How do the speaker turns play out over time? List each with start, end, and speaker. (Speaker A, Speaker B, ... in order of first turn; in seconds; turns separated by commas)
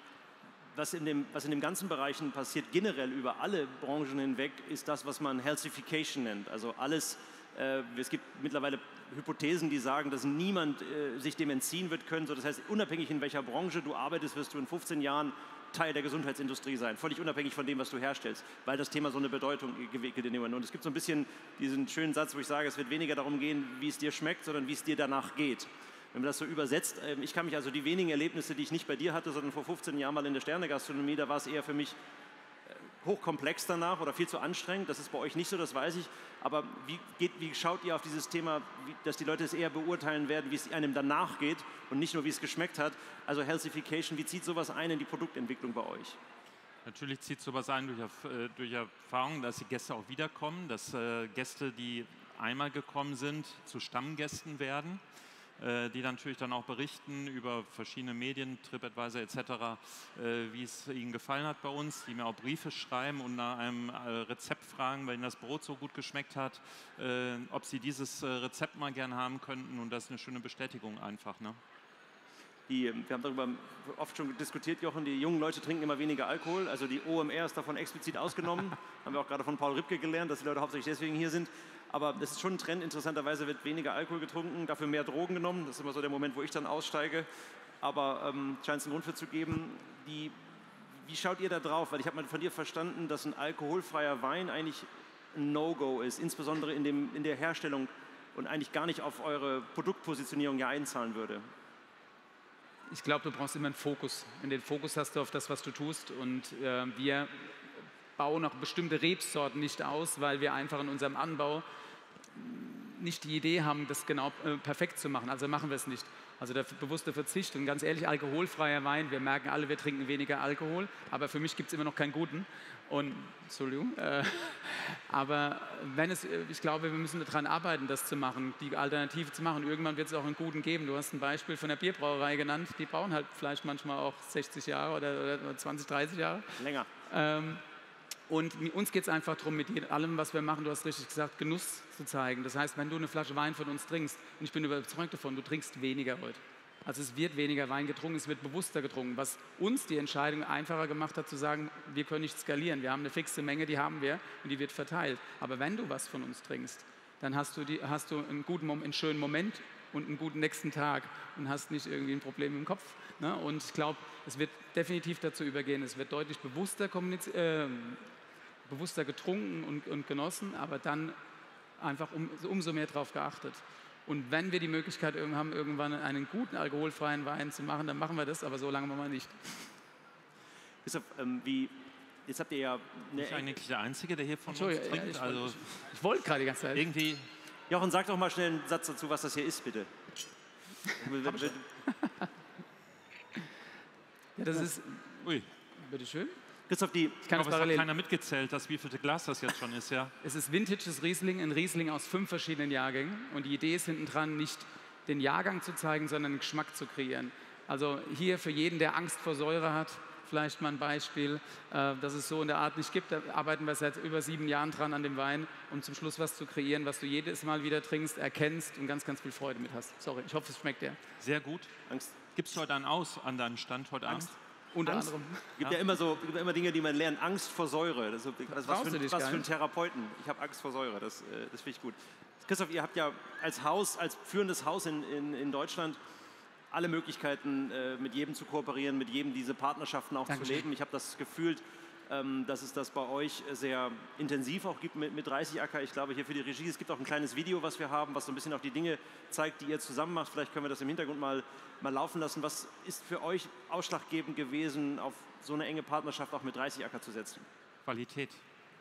Speaker A: 0.7-32.0, Speaker A: 32.7-46.2, Speaker B: 46.9-55.0, Speaker B: 55.6-71.6, Speaker A: 72.7-87.3, Speaker A: 87.8-90.3, Speaker A: 91.0-101.4, Speaker C: 102.9-107.6, Speaker C: 108.2-111.6, Speaker C: 112.3-137.6, Speaker A: 136.6-136.9, Speaker C: 138.3-168.1, Speaker C: 168.7-171.2, Speaker C: 171.8-179.7, Speaker A: 180.8-183.5, Speaker B: 183.1-185.7, Speaker C: 184.5-186.9, Speaker B: 186.7-187.3, Speaker A: 187.7-189.9, Speaker A: 190.9-191.6, Speaker C: 191.2-192.3, Speaker C: 194.3-196.3, Speaker B: 195.2-195.5, Speaker A: 196.7-197.2, Speaker C: 197.2-197.9, Speaker B: 197.3-200.1, Speaker C: 200.2-221.0, Speaker B: 221.2-221.7, Speaker A: 221.9-222.2, Speaker B: 222.3-225.8, Speaker C: 224.1-225.6, Speaker A: 225.6-236.0, Speaker C: 228.5-229.4, Speaker A: 236.7-257.4, Speaker C: 240.3-240.7, Speaker B: 257.8-258.4